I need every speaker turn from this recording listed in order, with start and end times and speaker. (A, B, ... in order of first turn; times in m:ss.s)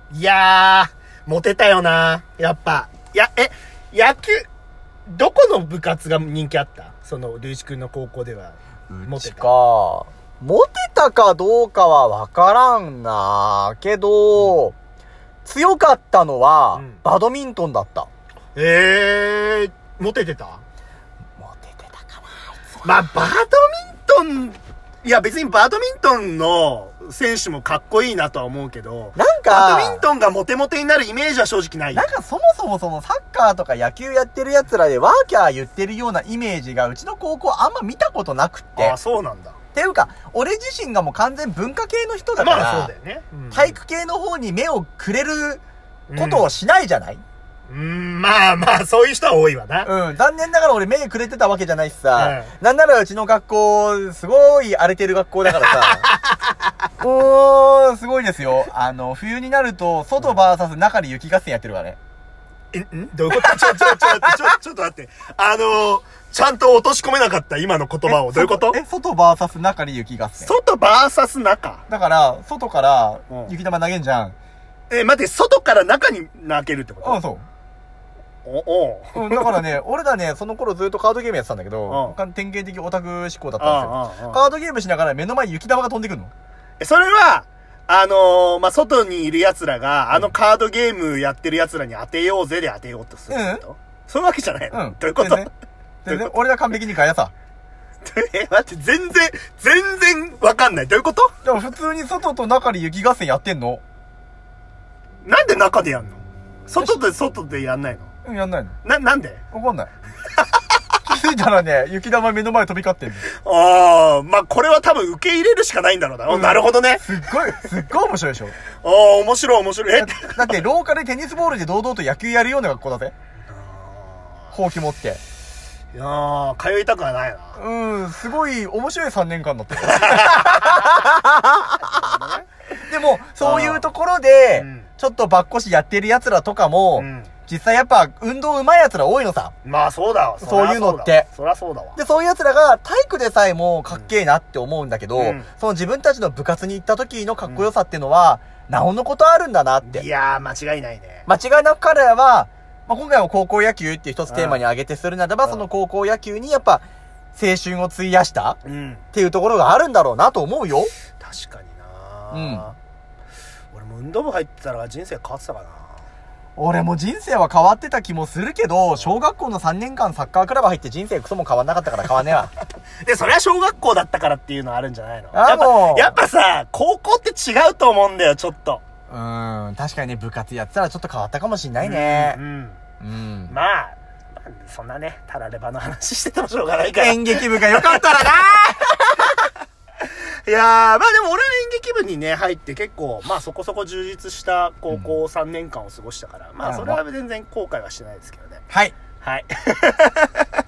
0:00.1-0:04.5 A
0:05.1-0:09.5 A
0:08.9-0:14.7 B
0:15.4-0:18.1 B
0:16.7-0:17.0 A
0:18.6-0:20.6 A
0:21.4-0:23.1 B
0:22.8-0:32.1 A
0:29.2-0:30.0 B
0:31.9-0:39.0 B
0:38.8-0:39.6 A
0:39.7-0:42.9 B
0:42.4-0:43.8 A
0:43.5-0:45.6 B
0:46.1-0:46.5 A
0:46.2-0:47.2 B
0:47.7-0:49.9 A
0:49.8-0:56.0 B
0:52.1-0:52.5 A
0:55.6-0:56.4 A
0:57.0-1:02.0 B
1:02.7-1:08.8 A
1:03.3-1:04.3 B
1:08.0-1:10.5 B
1:10.4-1:11.8 A
1:11.9-1:14.3 B
1:13.3-1:13.5 A
1:14.9-1:17.2 A
1:17.0-1:17.4 B
1:18.4-1:19.6 A
1:19.1-1:26.3 B
1:21.9-1:22.2 A
1:23.6-1:24.4 A
1:26.8-1:35.5 A
1:33.3-1:33.6 B
1:34.7-1:35.5 B
1:36.0-1:37.3 B
1:38.0-1:41.3 A
1:41.4-1:43.8 B
1:45.2-1:48.1 A
1:46.8-1:47.0 B
1:48.2-1:48.8 B
1:48.8-1:49.4 A
1:49.5-1:49.9 B
1:51.0-1:53.3 B
1:53.3-1:57.0 A
1:56.3-1:58.6 B
1:58.8-2:00.6 A
2:00.0-2:03.1 B
2:03.5-2:04.5 A
2:04.5-2:05.2 B
2:05.9-2:07.6 A
2:07.6-2:12.1 B
2:09.8-2:11.0 A
2:11.8-2:12.5 A
2:12.8-2:19.5 B
2:13.4-2:13.8 A
2:14.6-2:14.9 A
2:17.0-2:17.3 A
2:19.6-2:22.0 A
2:20.4-2:21.3 B
2:22.0-2:30.0 B
2:25.2-2:25.5 A
2:27.4-2:27.7 A
2:29.8-2:31.3 A
2:31.3-2:38.6 B
2:34.3-2:34.6 A
2:38.6-2:39.0 A
2:39.1-2:40.9 B
2:41.2-2:42.8 A
2:42.3-2:42.7 B
2:43.7-2:46.0 A
2:46.6-2:52.5 B
2:53.0-2:58.8 A
2:55.3-2:56.1 B
2:59.1-3:02.4 B
3:01.8-3:02.8 A
3:03.0-3:03.5 B
3:03.5-3:09.4 A
3:07.0-3:09.3 B
3:10.0-3:18.6 A
3:16.6-3:17.0 B
3:18.7-3:18.9 B
3:19.2-3:20.4 A